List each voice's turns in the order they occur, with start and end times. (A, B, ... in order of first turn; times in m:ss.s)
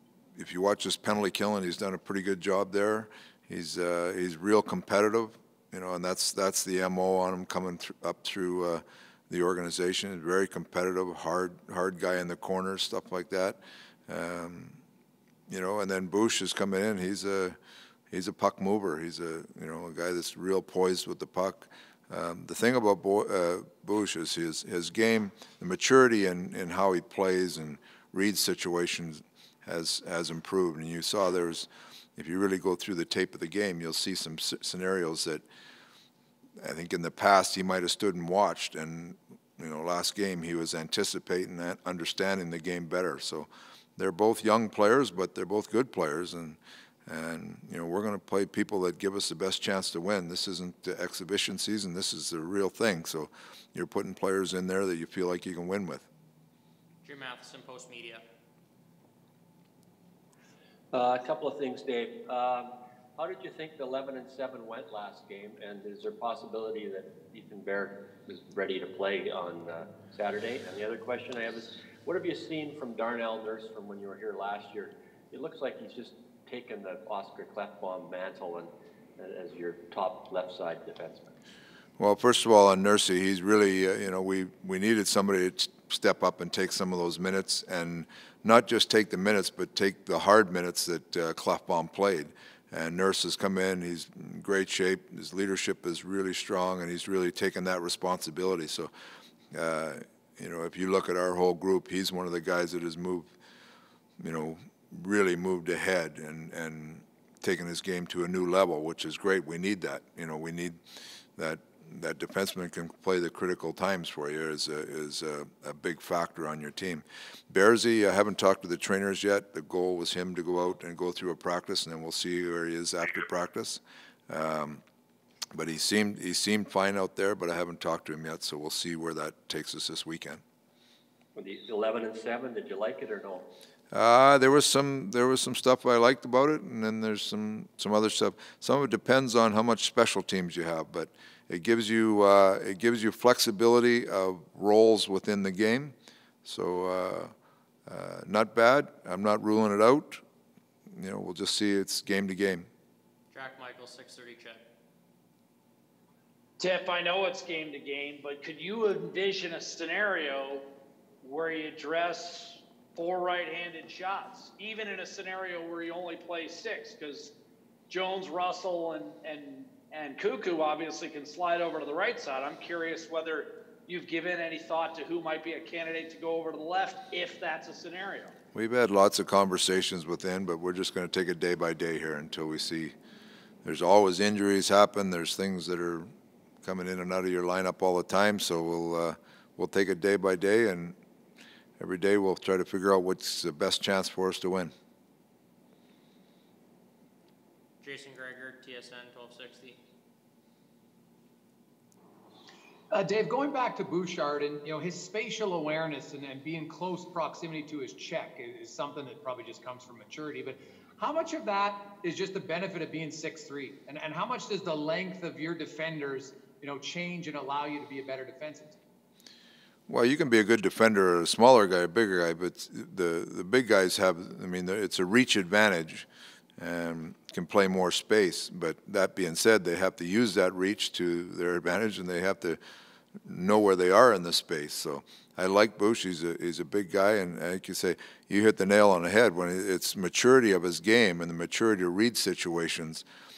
0:00.4-0:14.8 A
0:15.5-0:17.6 A
0:18.1-0:35.4 A
0:36.6-0:56.1 A
0:57.0-0:58.2 B
1:00.9-1:21.3 C
1:22.0-1:38.9 A
1:39.5-1:43.3 A
1:44.2-1:50.8 A
1:51.4-2:04.8 A
2:05.5-2:10.4 A
2:11.3-2:13.4 C
2:13.9-2:25.9 A
2:26.4-2:27.3 A
2:27.9-2:30.2 A
2:30.9-2:32.7 A
2:33.3-2:34.6 B
2:36.6-2:40.6 D
2:41.2-2:47.3 D
2:47.9-2:58.3 D
2:58.5-3:02.9 A
3:03.6-3:06.1 A
3:06.6-3:10.9 A
3:11.8-3:14.7 A
3:17.8-3:19.8 B
3:22.9-3:38.8 E
3:39.9-3:46.0 A
3:46.6-3:52.6 A
3:53.2-4:03.0 A